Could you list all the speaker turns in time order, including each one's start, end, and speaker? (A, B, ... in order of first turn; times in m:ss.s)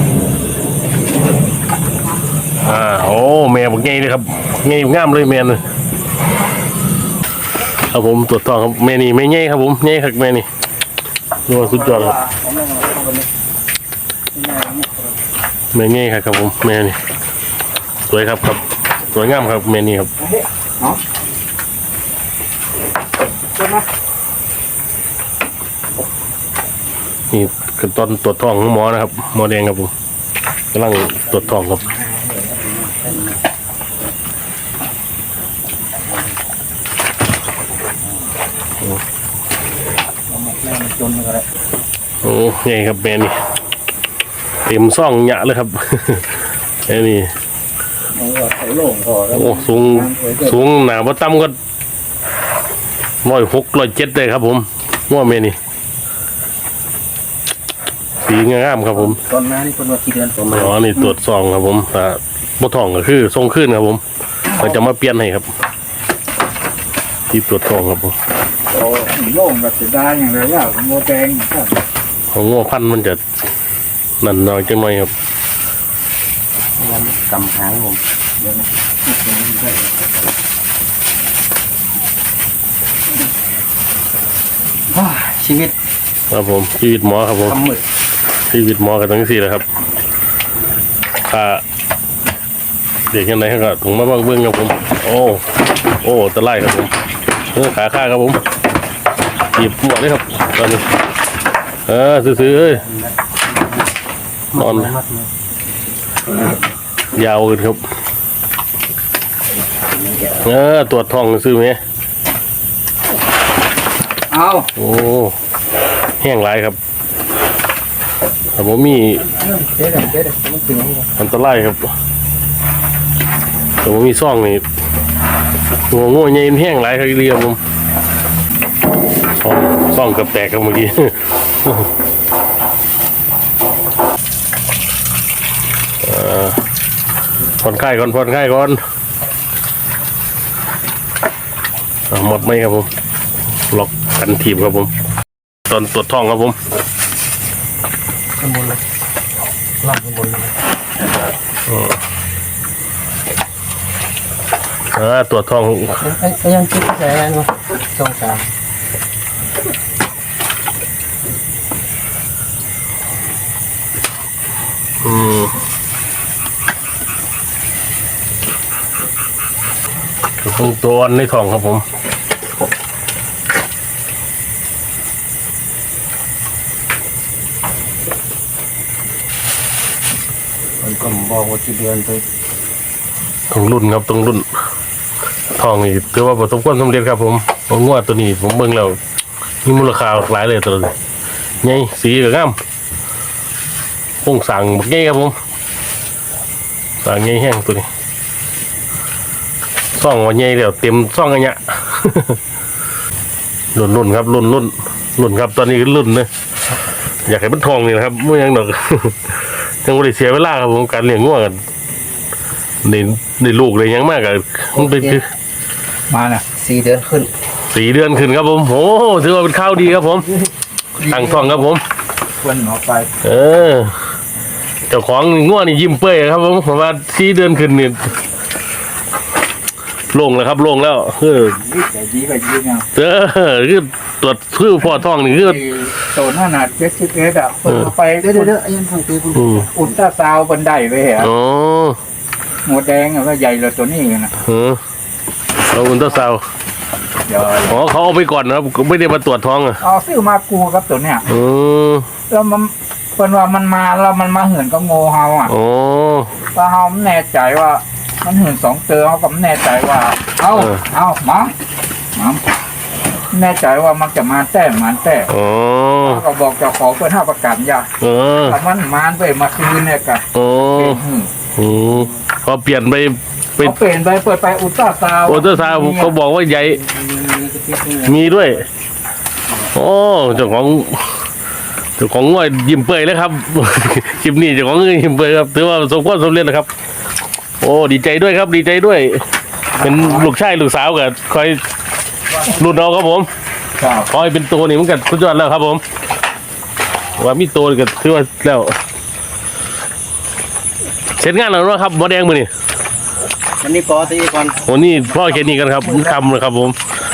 0:02.6-0:05.6 A
0:07.9-0:10.5 A
0:11.5-0:12.1 A
0:11.5-0:12.4 B
0:12.4-0:13.2 C
0:14.4-0:15.0 C
0:15.7-0:17.0 A
0:18.1-0:20.1 A
0:20.2-0:21.0 B
0:23.6-0:23.9 B
0:27.3-0:29.9 A
0:30.7-0:31.8 A
0:32.3-0:33.4 C
0:36.0-0:36.3 C
0:40.3-0:41.5 C
0:42.2-0:43.4 A
0:44.7-0:46.3 A
0:46.9-0:47.3 A
0:48.2-0:50.3 C
0:48.3-0:49.0 B
0:49.3-0:51.6 A
0:53.2-0:55.6 A
0:58.2-0:59.2 A
0:58.9-1:00.8 C
1:00.5-1:04.0 A
1:04.5-1:05.5 A
1:07.3-1:08.1 A
1:08.7-1:11.8 B
1:12.3-1:13.2 A
1:14.2-1:15.1 A
1:16.8-1:18.0 C
1:19.1-1:20.1 C
1:24.9-1:25.7 C
1:26.3-1:27.6 A
1:27.5-1:27.8 C
1:28.5-1:29.6 A
1:31.3-1:31.6 A
1:33.1-1:35.5 A
1:36.0-1:36.9 A
1:37.5-1:38.4 A
1:39.6-1:40.8 A
1:41.9-1:42.8 A
1:42.3-1:43.8 C
1:44.5-1:45.3 C
1:44.6-1:44.9 A
1:47.1-1:47.8 A
1:49.9-1:50.5 C
1:50.4-1:51.8 A
1:54.3-1:54.7 B
1:54.8-1:55.4 A
1:56.2-1:56.8 A
1:58.6-1:59.2 A
1:59.2-2:01.1 C
2:01.2-2:01.8 A
2:03.8-2:04.6 A
2:05.9-2:07.6 A
2:09.4-2:11.9 A
2:16.0-2:16.6 A
2:17.6-2:18.8 A
2:22.1-2:22.9 A
2:23.7-2:24.9 A
2:25.7-2:26.6 A
2:28.4-2:28.8 C
2:29.8-2:30.6 C
2:31.7-2:32.0 A
2:34.9-2:36.0 A
2:36.0-2:38.5 C
2:45.0-2:45.5 A
2:50.4-2:51.8 A
3:00.8-3:02.2 C
3:03.5-3:04.4 A
3:05.6-3:09.0 A
3:09.6-3:10.9 A
3:11.6-3:12.6 A
3:14.2-3:15.4 A
3:17.0-3:17.9 A
3:20.0-3:22.4 A
3:23.8-3:26.3 A
3:27.3-3:31.6 A
3:32.8-3:35.3 A
3:34.7-3:35.2 C
3:36.1-3:36.4 B
3:36.5-3:37.3 C
3:37.7-3:40.3 A
3:41.0-3:41.6 B
3:41.1-3:41.8 A
3:42.4-3:43.1 B
3:43.2-3:44.0 A
3:44.9-3:48.1 A
3:50.1-3:51.6 A
3:51.5-3:52.9 B
3:53.0-3:55.6 A
3:54.9-3:58.5 B
3:58.2-3:59.9 C
3:59.3-3:59.7 A
3:59.8-4:01.3 B
4:01.2-4:02.0 A
4:02.6-4:04.3 B
4:04.4-4:04.8 A
4:05.7-4:06.4 A
4:07.3-4:07.8 B
4:07.6-4:09.8 A
4:09.8-4:11.2 B
4:11.3-4:12.1 A
4:12.3-4:15.5 B
4:15.5-4:16.3 A
4:16.6-4:21.5 B
4:20.5-4:20.8 A
4:22.2-4:22.4 B
4:23.3-4:25.3 B
4:25.3-4:26.2 A
4:26.0-4:27.9 B
4:28.0-4:28.6 A
4:28.5-4:30.2 B
4:30.4-4:31.0 A
4:30.7-4:31.3 B
4:31.6-4:33.8 A
4:31.9-4:32.2 C
4:33.6-4:36.1 B
4:35.3-4:36.8 A
4:36.6-4:38.6 C
4:38.1-4:38.6 A
4:39.8-4:41.1 A
4:42.0-4:46.7 A
4:47.6-4:49.2 A
4:49.8-4:51.6 A
4:49.8-4:50.2 B
4:52.4-4:53.3 A
4:53.8-4:54.1 B
4:54.1-4:55.8 A
4:57.2-4:58.8 A
5:01.2-5:02.5 A
5:03.6-5:04.7 C
5:04.6-5:06.8 A